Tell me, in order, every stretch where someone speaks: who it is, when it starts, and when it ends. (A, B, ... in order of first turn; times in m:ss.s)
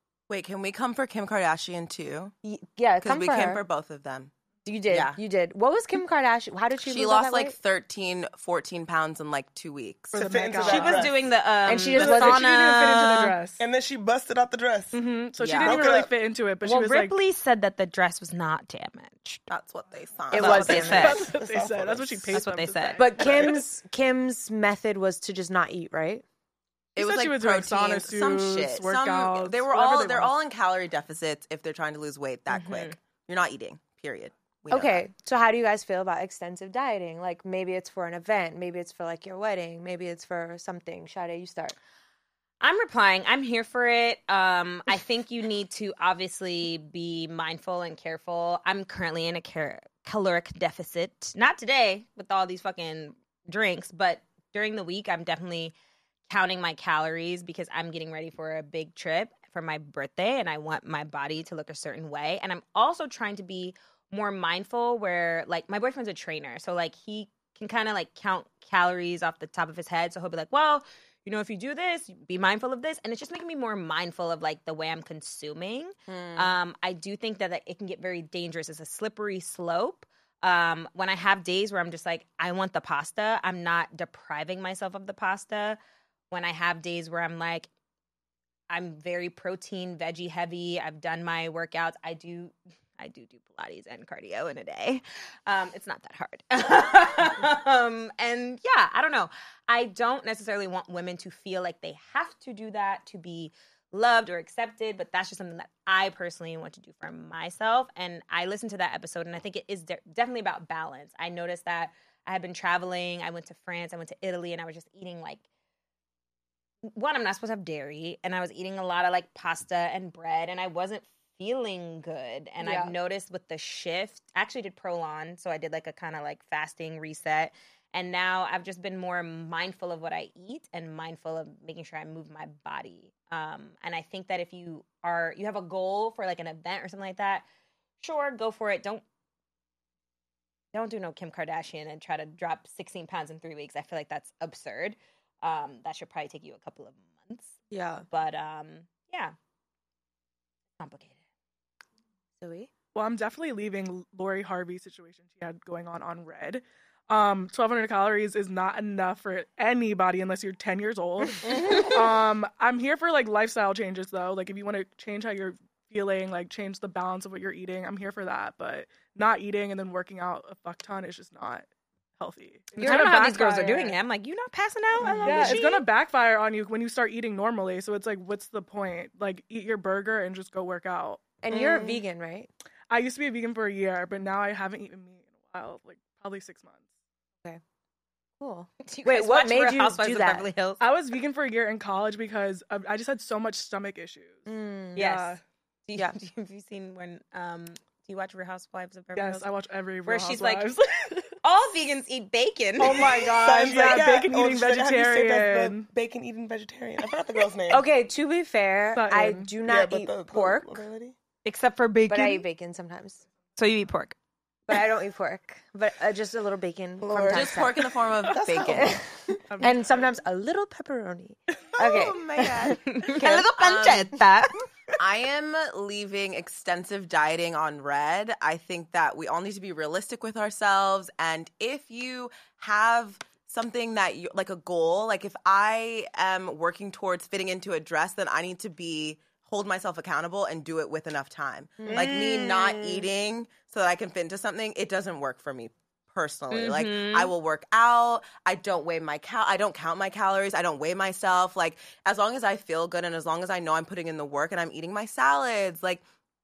0:00.3-0:02.3 A
0:02.4-0:03.6 B
0:03.0-0:04.3 A
0:04.6-0:07.6 B
0:04.9-0:05.2 A
0:06.8-0:10.3 A
0:10.1-0:11.2 C
0:10.1-0:11.2 D
0:10.6-0:13.4 E
0:11.7-0:12.5 B
0:11.9-0:13.6 C
0:13.6-0:15.0 D
0:14.9-0:17.2 C
0:15.4-0:15.8 E
0:15.6-0:16.1 D
0:16.6-0:19.4 E
0:19.5-0:21.1 A
0:20.3-0:21.3 B
0:20.4-0:21.3 E
0:20.5-0:23.5 C
0:21.1-0:22.4 D
0:22.3-0:23.0 E
0:23.0-0:26.2 B
0:23.2-0:23.6 D
0:27.0-0:35.0 A
0:27.0-0:30.4 C
0:32.5-0:33.0 E
0:34.7-0:41.8 B
0:42.6-0:55.7 E
0:56.3-1:25.8 E
1:26.3-1:27.7 E
1:28.7-1:55.4 E
1:56.9-2:17.4 E
2:02.6-2:02.9 B
2:18.0-2:19.0 E
2:20.7-2:27.6 E
2:27.7-2:28.0 B
2:28.1-2:29.4 E
2:30.8-2:31.2 E
2:32.4-2:32.7 B
2:33.0-2:54.0 C
2:41.5-2:41.9 D
2:52.8-2:55.8 E
2:55.0-3:01.3 C
2:55.0-2:55.6 B
3:01.4-3:02.5 B
3:01.6-3:01.9 E
3:02.9-3:06.8 C
3:08.4-3:10.5 B
3:08.8-3:10.8 E
3:10.8-3:15.4 C
3:14.5-3:15.2 B
3:15.0-3:19.5 E
3:19.1-3:21.4 C
3:20.1-3:20.7 E
3:21.4-3:23.2 E
3:22.8-3:25.9 C
3:23.1-3:27.8 D
3:27.7-3:30.9 B
3:28.9-3:29.5 C
3:29.6-3:31.2 D
3:31.4-3:32.4 E
3:32.1-3:33.2 B
3:33.6-3:34.2 E
3:34.7-3:37.8 B
3:37.0-3:39.1 D
3:37.3-3:39.0 A
3:38.6-3:43.4 B
3:39.5-3:39.8 C
3:41.8-3:44.2 A
3:42.8-3:44.6 E
3:45.0-4:16.0 A
4:01.8-4:03.0 B
4:01.9-4:02.8 D
4:06.5-4:07.3 E